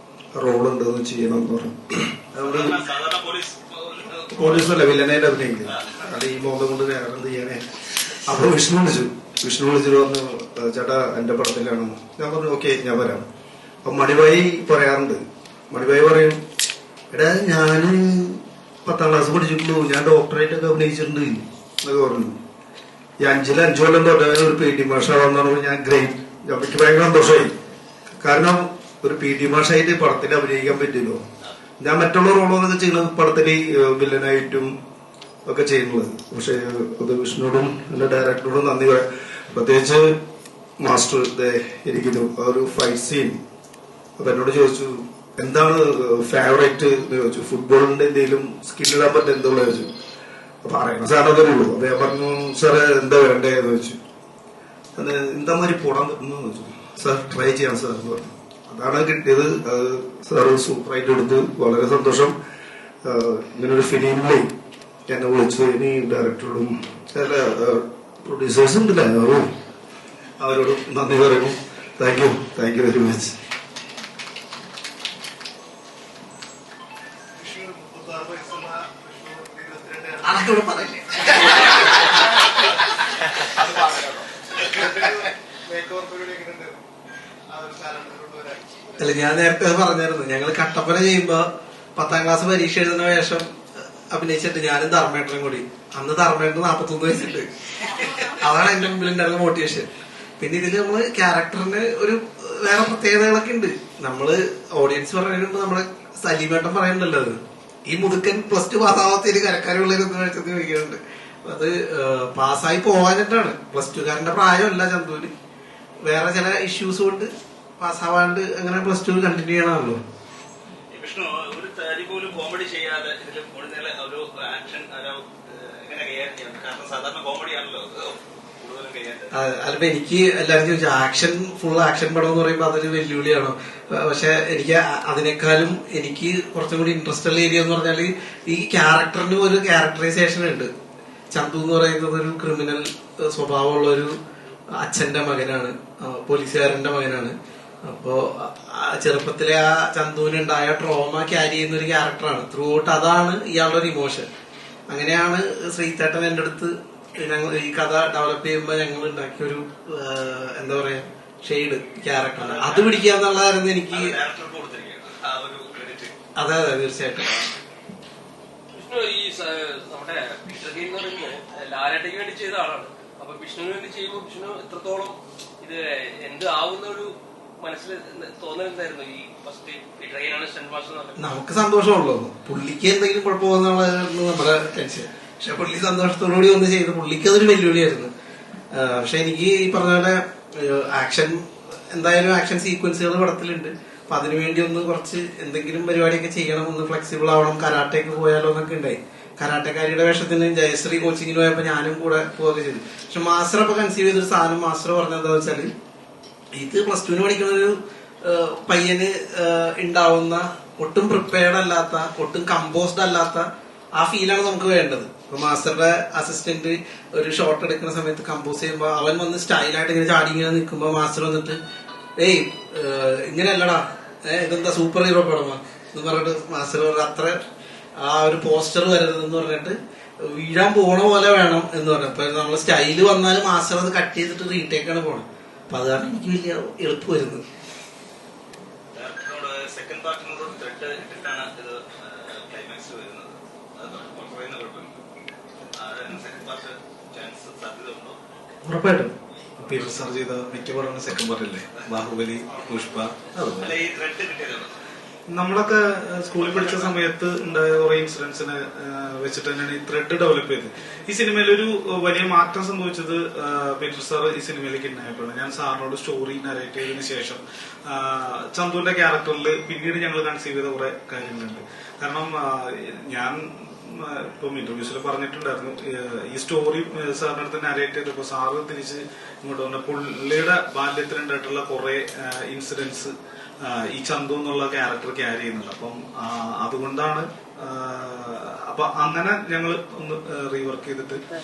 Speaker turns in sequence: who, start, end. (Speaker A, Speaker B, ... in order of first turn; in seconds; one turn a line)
Speaker A: 0.3-2.8
Speaker B: 2.4-4.9
Speaker A: 4.3-7.6
Speaker B: 5.7-6.1
Speaker A: 8.2-13.2
Speaker A: 13.8-16.4
Speaker A: 17.1-22.4
Speaker A: 23.2-27.5
Speaker A: 28.2-31.2
Speaker A: 31.8-34.7
Speaker A: 35.5-40.2
Speaker A: 40.8-43.4
Speaker A: 44.2-49.9
Speaker A: 50.6-54.0
Speaker A: 55.0-62.3
Speaker A: 63.0-64.5
Speaker A: 65.1-69.5
Speaker A: 70.4-73.3
Speaker A: 77.4-80.3
Speaker C: 80.2-82.1
Speaker A: 84.6-86.8
Speaker A: 87.5-88.8
Speaker C: 89.0-91.5
Speaker C: 92.0-93.5
Speaker C: 94.1-97.5
Speaker C: 98.0-99.9
Speaker C: 100.4-115.3
Speaker C: 116.0-120.0
Speaker B: 120.9-129.3
Speaker C: 129.3-140.7
Speaker C: 141.3-144.2
Speaker C: 144.8-154.3
Speaker C: 154.9-164.1
Speaker B: 162.4-163.1
Speaker B: 163.9-166.2
Speaker C: 166.4-167.4
Speaker D: 168.8-175.2
Speaker D: 176.3-177.0
Speaker D: 177.7-181.1
Speaker C: 181.2-188.1
Speaker C: 188.7-205.7
Speaker C: 206.5-221.6
Speaker C: 222.2-227.4
Speaker C: 228.0-229.8
Speaker C: 230.3-237.4
Speaker B: 238.9-245.0
Speaker B: 245.7-248.2
Speaker E: 248.7-253.8
Speaker B: 253.6-254.8
Speaker E: 255.3-291.2
Speaker B: 256.4-257.0